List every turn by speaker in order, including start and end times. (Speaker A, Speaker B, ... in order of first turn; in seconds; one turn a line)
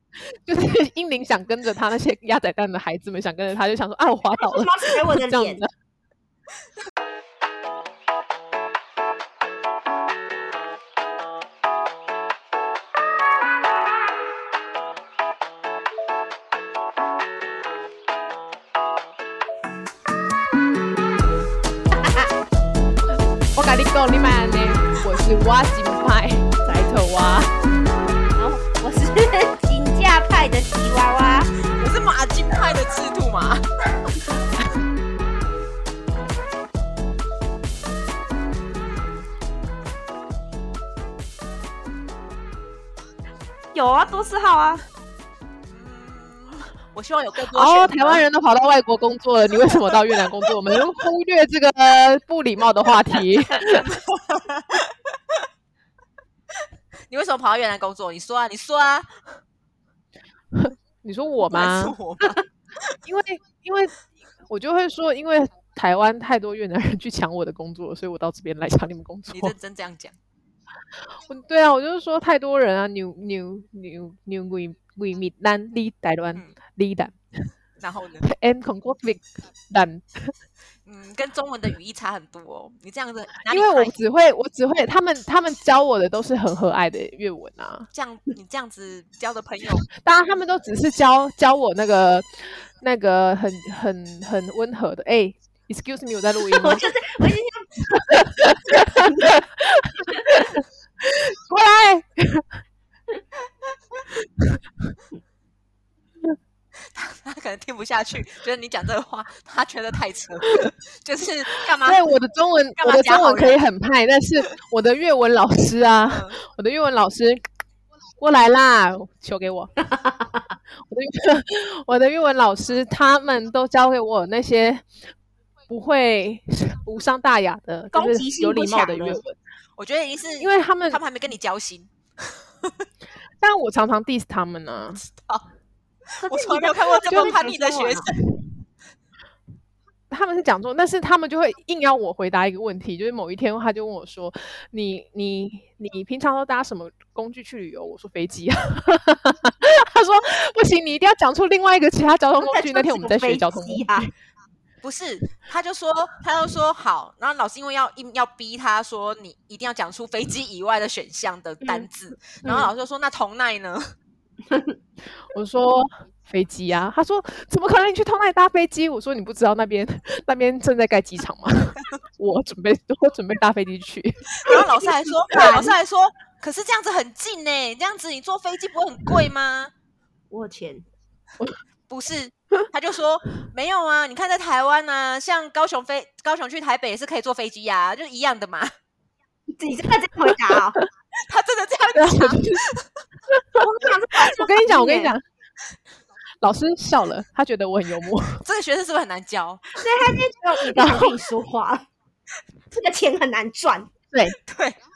Speaker A: 0.5-5.7
Speaker B: 4.4-5.6
Speaker B: 22.0-22.3
Speaker A: 23.6-27.5
Speaker B: 28.4-31.6
Speaker C: 31.7-33.6
Speaker B: 43.7-44.8
Speaker C: 45.7-48.2
Speaker A: 47.5-53.9
Speaker C: 53.6-55.4
Speaker C: 57.1-59.2
Speaker A: 60.5-62.0
Speaker C: 61.5-62.9
Speaker A: 63.0-64.0
Speaker A: 64.5-69.5
Speaker C: 69.3-70.2
Speaker A: 71.3-77.5
Speaker C: 77.8-78.3
Speaker A: 78.2-80.3
Speaker C: 80.9-84.0
Speaker A: 83.5-87.9
Speaker C: 87.9-89.9
Speaker A: 90.0-96.9
Speaker B: 96.5-97.7
Speaker A: 97.9-102.6
Speaker C: 106.8-112.0
Speaker A: 111.8-117.4
Speaker C: 112.8-113.6
Speaker C: 116.1-116.4
Speaker A: 118.2-119.7
Speaker B: 120.0-120.3
Speaker A: 120.9-124.9
Speaker A: 125.7-129.4
Speaker B: 127.9-129.2
Speaker C: 129.8-132.9
Speaker A: 130.4-131.0
Speaker A: 133.4-135.0
Speaker C: 135.0-135.4
Speaker C: 136.2-138.1
Speaker B: 136.2-138.1
Speaker A: 140.1-154.1
Speaker B: 152.4-154.1
Speaker C: 154.8-163.9
Speaker B: 161.6-161.9
Speaker B: 162.4-162.7
Speaker B: 164.5-164.8
Speaker A: 165.3-174.6
Speaker C: 174.4-179.7
Speaker B: 174.5-174.8
Speaker A: 175.3-175.7
Speaker B: 175.4-175.7
Speaker B: 180.3-180.8
Speaker C: 181.9-188.7
Speaker B: 189.6-190.8
Speaker C: 191.2-192.9
Speaker A: 191.9-192.6
Speaker A: 193.3-193.6
Speaker B: 193.6-195.1
Speaker A: 194.2-195.2
Speaker A: 196.4-198.4
Speaker C: 198.4-199.7
Speaker B: 199.8-201.9
Speaker A: 200.7-201.1
Speaker B: 202.7-203.9
Speaker A: 204.1-204.4
Speaker C: 204.4-204.8